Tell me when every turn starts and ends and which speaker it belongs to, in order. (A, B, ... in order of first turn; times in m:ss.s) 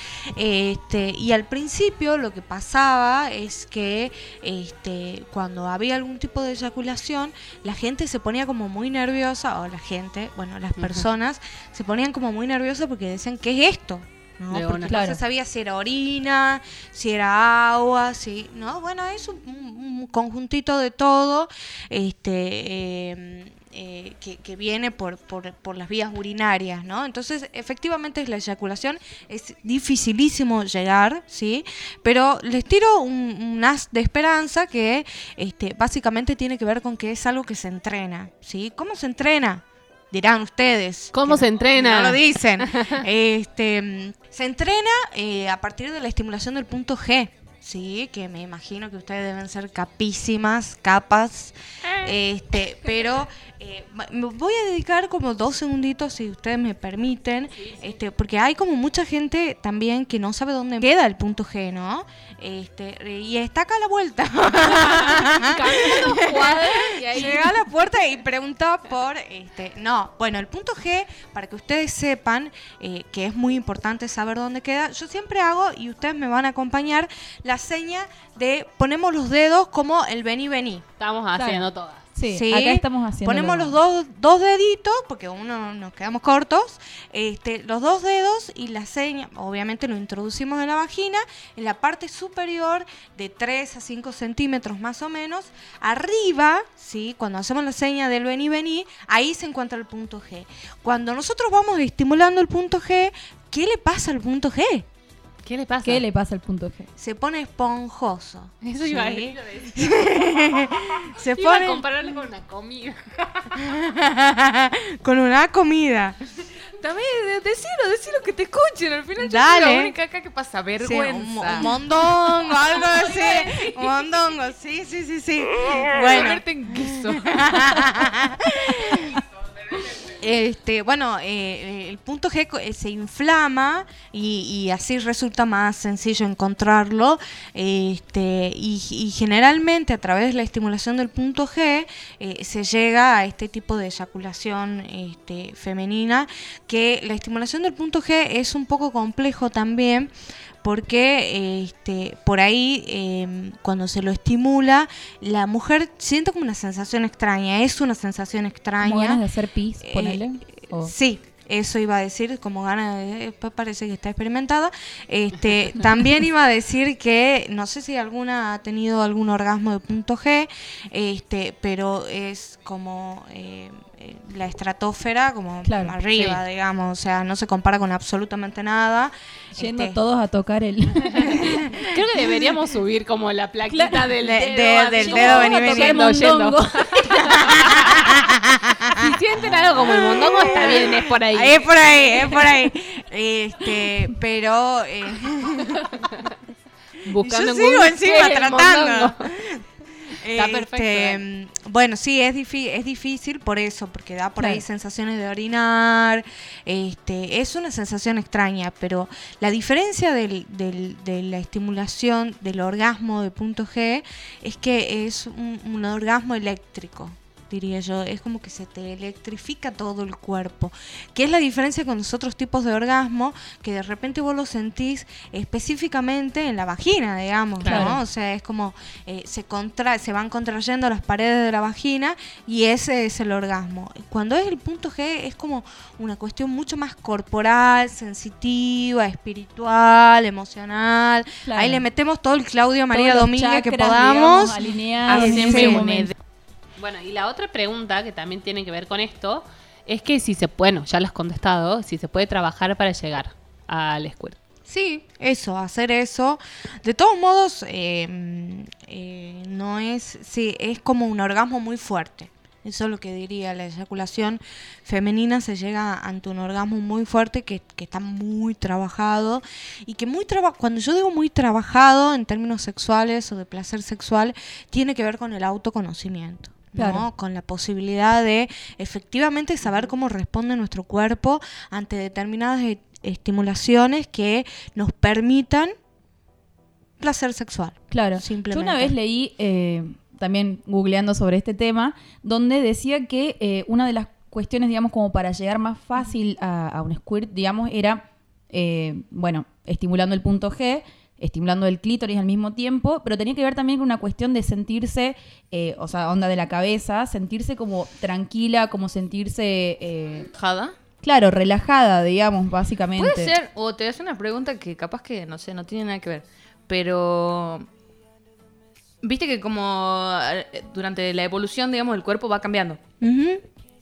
0:00.4-1:20.8 A
0:10.8-0:11.1 B
0:14.5-0:15.0 B
0:14.9-0:15.2 C
0:41.1-0:43.0 B
1:04.8-1:07.6 B
1:07.1-1:07.5 C
1:21.0-1:22.0 B
1:21.4-1:23.8 C
1:22.3-1:44.9 A
1:45.4-1:46.0 B
1:45.8-1:46.9 C
1:47.0-1:51.9 A
1:48.6-1:53.6 B
1:53.6-1:56.2 A
1:56.8-2:01.7 D
1:59.2-1:59.9 A
2:00.8-2:09.2 A
2:02.8-2:03.5 B
2:05.9-2:08.0 D
2:09.8-2:30.1 A
2:30.6-2:39.2 A
2:38.8-2:40.9 C
2:39.8-3:00.0 A
2:55.6-2:56.0 C
2:56.1-2:56.4 B
2:59.6-3:01.5 C
3:01.2-3:01.8 A
3:01.8-3:08.2 B
3:03.7-3:04.1 C
3:04.2-3:06.0 A
3:05.0-3:07.4 C
3:07.5-3:09.1 A
3:09.0-3:12.6 B
3:09.8-3:16.0 A
3:17.0-3:19.3 B
3:17.2-3:19.6 A
3:20.2-4:05.8 A
3:20.3-3:21.2 B
3:24.4-3:24.6 C
3:47.6-3:47.9 D
3:47.6-3:48.0 C
4:01.4-4:01.8 C
4:02.9-4:06.1 C
4:05.1-4:06.1 D
4:05.4-4:05.8 B
4:06.8-4:14.4 B
4:14.7-4:45.7 A
4:36.8-4:37.1 C
4:47.0-4:48.9 A
4:47.9-5:10.3 C
5:10.3-5:10.7 D
5:11.0-5:13.3 C
5:13.0-5:17.7 D
5:19.0-5:22.8 D
5:23.0-5:23.4 A